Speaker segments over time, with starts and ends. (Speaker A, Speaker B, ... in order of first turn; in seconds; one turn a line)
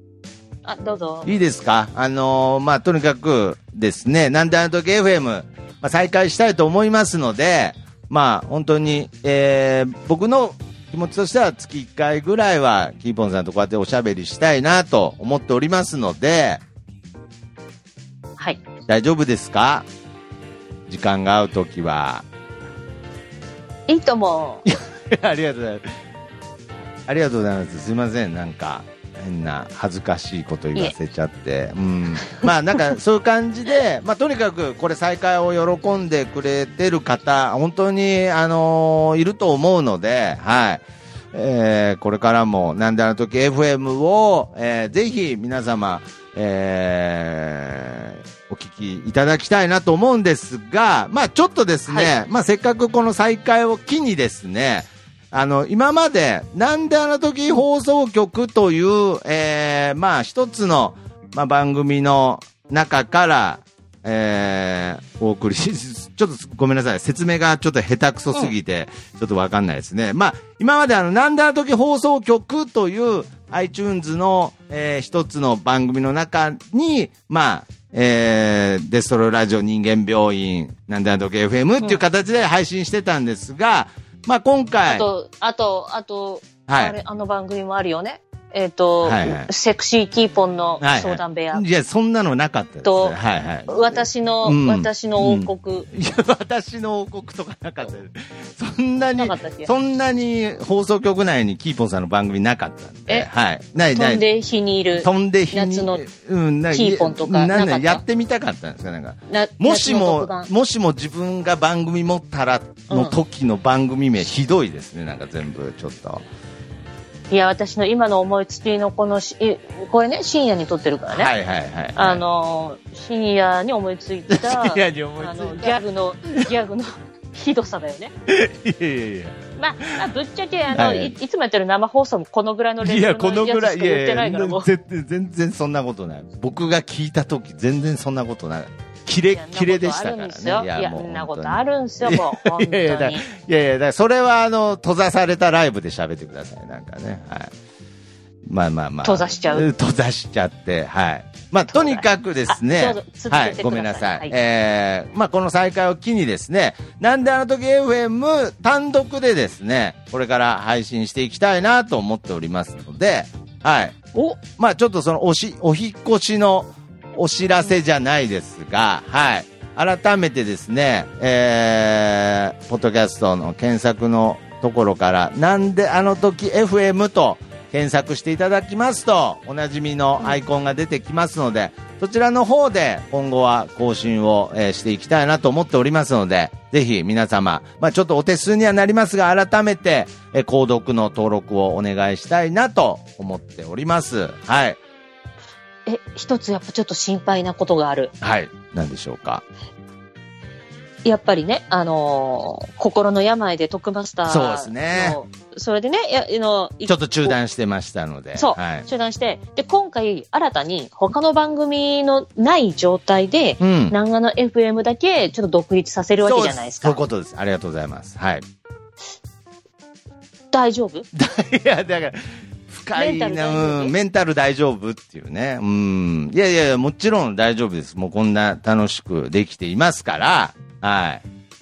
Speaker A: 0.6-1.3
Speaker B: 1.2-16.6
Speaker B: 18.9-19.9
Speaker B: 20.9-22.2
Speaker A: 23.9-24.6
Speaker B: 24.6-25.9
Speaker B: 27.1-85.1
Speaker A: 84.8-91.6
Speaker B: 86.7-87.0
Speaker B: 89.0-89.5
Speaker B: 90.8-104.2
Speaker A: 92.8-93.2
Speaker A: 93.7-95.9
Speaker A: 99.2-99.7
Speaker A: 103.9-106.0
Speaker B: 105.0-116.2
Speaker A: 106.7-108.0
Speaker A: 109.3-110.5
Speaker A: 112.9-113.2
Speaker A: 117.3-121.3
Speaker B: 121.1-122.2
Speaker A: 121.9-128.1
Speaker B: 124.3-126.5
Speaker B: 128.3-129.4
Speaker A: 129.6-134.7
Speaker B: 130.7-131.1
Speaker B: 132.8-147.5
Speaker A: 139.3-143.2
Speaker B: 148.4-194.8
Speaker A: 149.0-149.7
Speaker A: 151.7-154.3
Speaker A: 195.8-198.1
Speaker B: 198.2-199.4
Speaker A: 201.0-207.3
Speaker B: 204.2-205.2
Speaker B: 206.9-208.8
Speaker A: 208.3-217.0
Speaker B: 213.6-213.9
Speaker B: 216.2-218.4
Speaker A: 220.5-221.1
Speaker B: 221.1-231.2
Speaker A: 222.9-223.9